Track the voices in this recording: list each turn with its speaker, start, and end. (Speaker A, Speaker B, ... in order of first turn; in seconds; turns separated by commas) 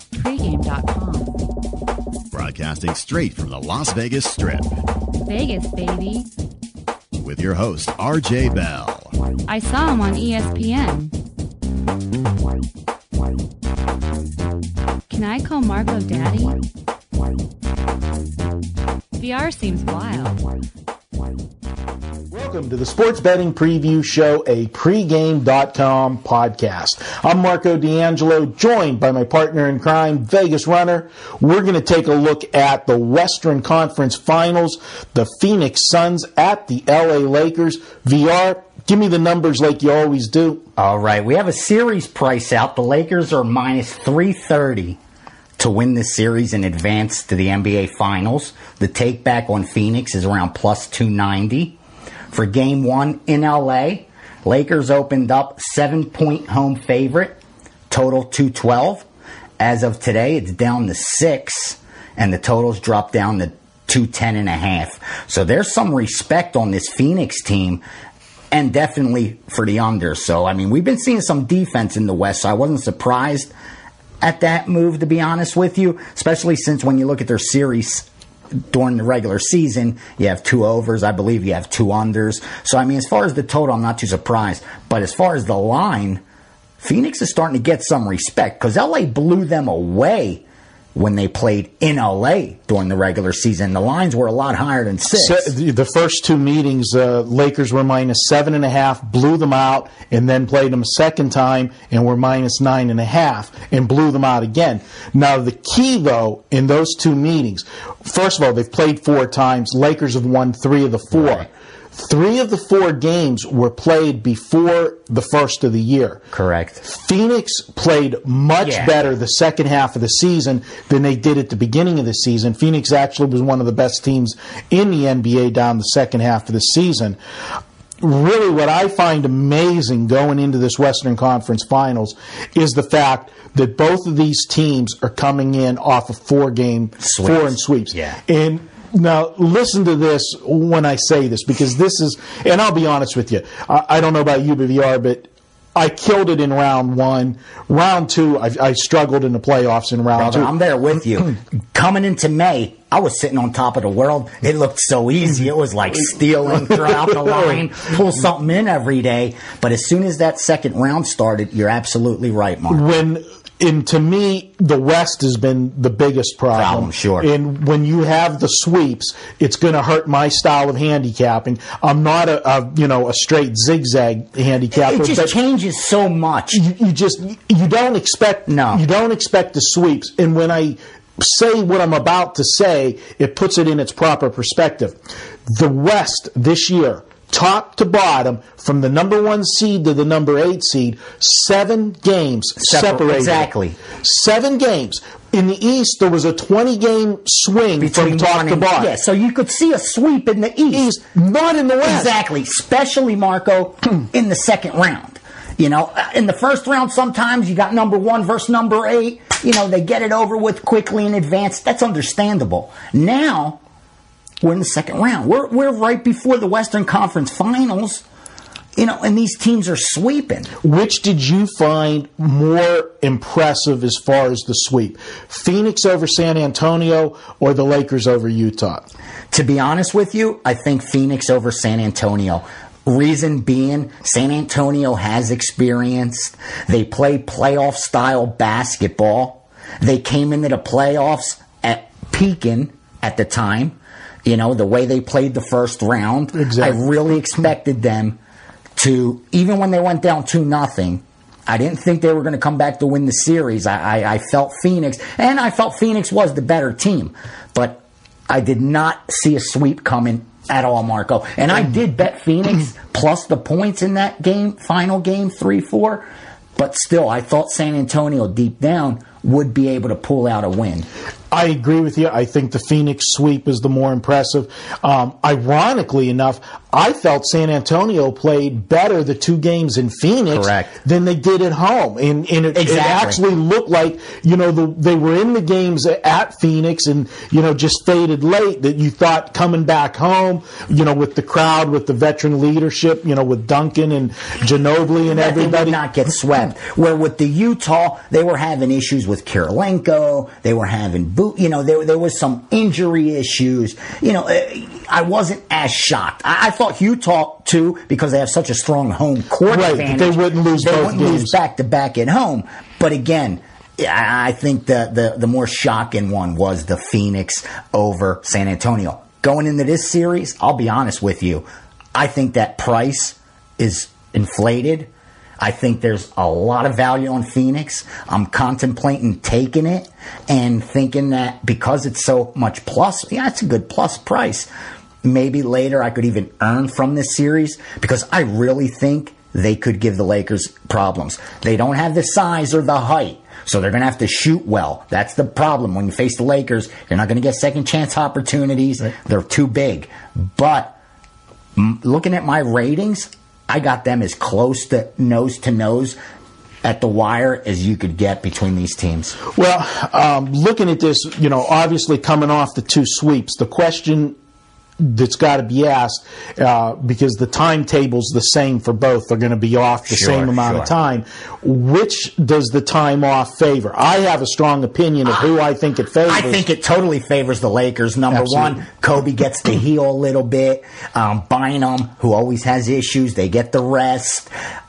Speaker A: 0.1-1.4, Speaker B: 2.3-4.7, Speaker A: 5.3-6.3, Speaker B: 7.2-9.1, Speaker A: 9.5-11.1, Speaker A: 15.1-16.6, Speaker A: 19.2-20.4, Speaker C: 22.3-40.6, Speaker D: 40.8-45.0, Speaker D: 45.6-51.8, Speaker D: 52.3-57.4, Speaker D: 57.9-59.1, Speaker D: 59.6-67.8, Speaker D: 68.5-73.5, Speaker D: 74.2-78.1, Speaker D: 78.7-86.2, Speaker D: 86.8-90.4, Speaker D: 91.0-95.5, Speaker C: 95.1-116.2, Speaker D: 111.1-111.5, Speaker D: 116.3-116.8, Speaker C: 116.8-127.2, Speaker D: 118.6-119.0, Speaker C: 128.0-150.5, Speaker D: 137.0-138.2, Speaker D: 150.2-162.9, Speaker C: 156.7-157.6, Speaker C: 162.7-175.3, Speaker D: 166.5-167.3, Speaker D: 174.7-176.6, Speaker C: 176.5-185.0, Speaker D: 178.5-178.8, Speaker C: 185.5-198.9, Speaker D: 192.6-193.8, Speaker D: 197.8-200.9, Speaker C: 200.7-202.1, Speaker D: 201.8-213.6, Speaker D: 214.4-218.0, Speaker D: 218.8-220.5, Speaker C: 220.6-228.8, Speaker D: 229.3-248.2, Speaker C: 246.3-246.8, Speaker D: 248.8-270.9, Speaker C: 271.3-295.8, Speaker D: 280.3-280.7, Speaker D: 282.6-283.2, Speaker D: 295.1-324.9, Speaker C: 309.4-311.4, Speaker D: 325.4-334.5, Speaker D: 335.0-350.8, Speaker D: 351.6-356.0, Speaker D: 356.6-359.2, Speaker C: 359.3-364.2, Speaker C: 364.8-376.4, Speaker D: 369.9-370.7, Speaker D: 376.1-384.3, Speaker C: 378.1-378.6